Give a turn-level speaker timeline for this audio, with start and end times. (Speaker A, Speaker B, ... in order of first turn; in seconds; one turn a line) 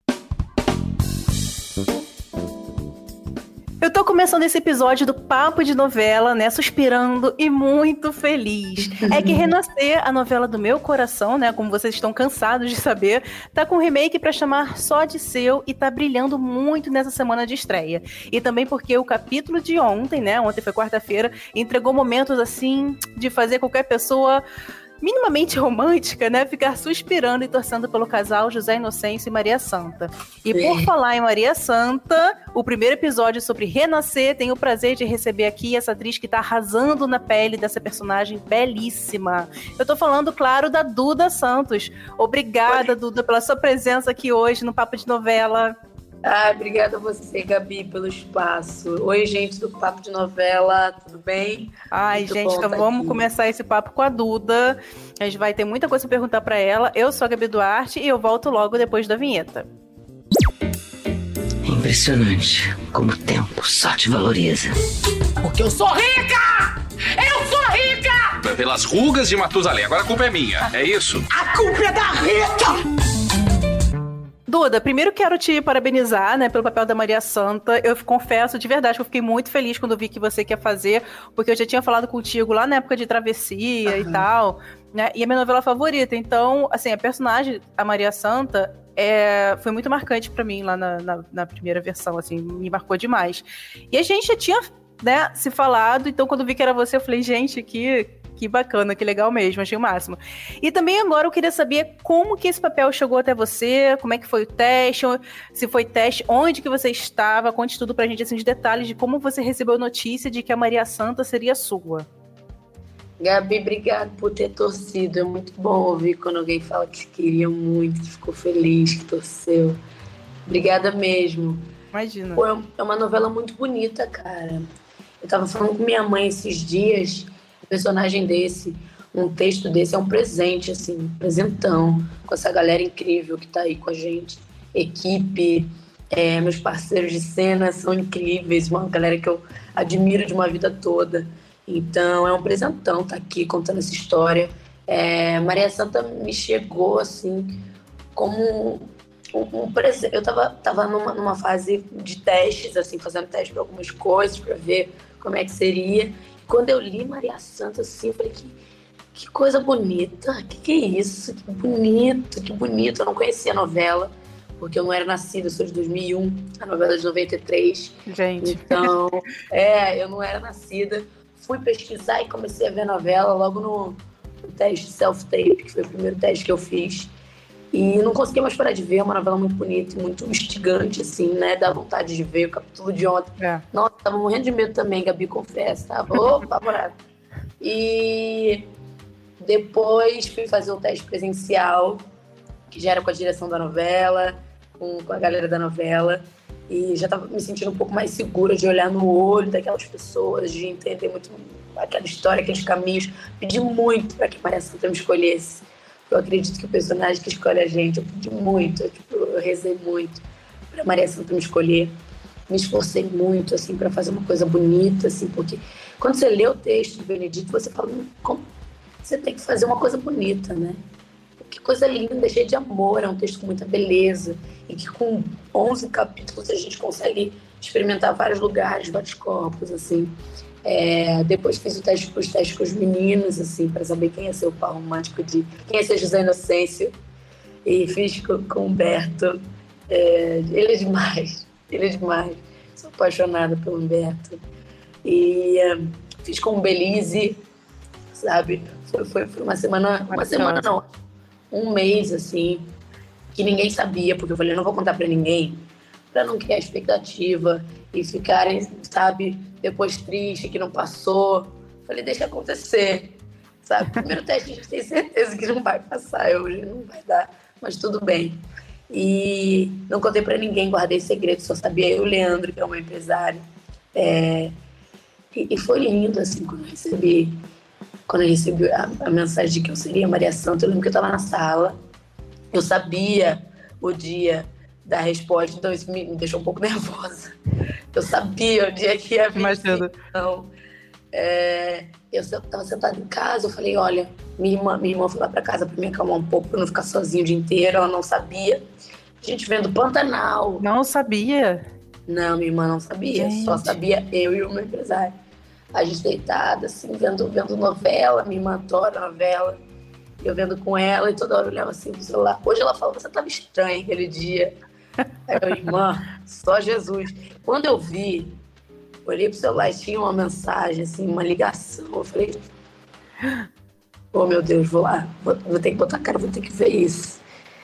Speaker A: 3.8-24.4
Speaker B: 8.9-9.5
Speaker A: 25.0-45.7
Speaker B: 30.5-30.9
Speaker B: 46.2-53.2
Speaker A: 51.9-59.7
Speaker C: 61.6-64.8
Speaker D: 65.4-68.4
Speaker E: 68.4-71.3
Speaker D: 71.3-72.8
Speaker A: 74.5-112.1
Speaker B: 83.8-84.2
Speaker B: 113.2-119.8
Speaker B: 120.5-121.6
Speaker A: 121.9-122.4
Speaker B: 122.3-124.7
Speaker B: 125.2-147.6
Speaker B: 148.1-158.6
Speaker B: 159.1-177.1
Speaker A: 168.1-168.9
Speaker B: 177.7-186.9
Speaker B: 187.6-188.7
Speaker B: 189.4-192.0
Speaker B: 192.7-211.9
Speaker B: 212.5-218.4
Speaker B: 219.0-220.8
Speaker B: 221.4-236.9
Speaker B: 237.6-244.4
Speaker B: 245.0-247.4
Speaker B: 248.1-250.9
Speaker A: 250.1-250.7
Speaker B: 251.5-252.6
Speaker B: 253.3-273.4
Speaker B: 273.9-274.5
Speaker B: 275.3-277.4
Speaker B: 278.1-281.8
Speaker B: 282.5-287.3
Speaker B: 287.9-290.5
Speaker A: 289.4-289.9
Speaker B: 291.1-298.6
Speaker B: 299.2-300.6
Speaker A: 300.6-301.6
Speaker B: 302.1-305.1
Speaker A: 303.1-303.8
Speaker B: 305.7-309.6
Speaker B: 310.2-314.5
Speaker B: 315.3-318.4
Speaker B: 319.0-322.5
Speaker B: 324.1-327.2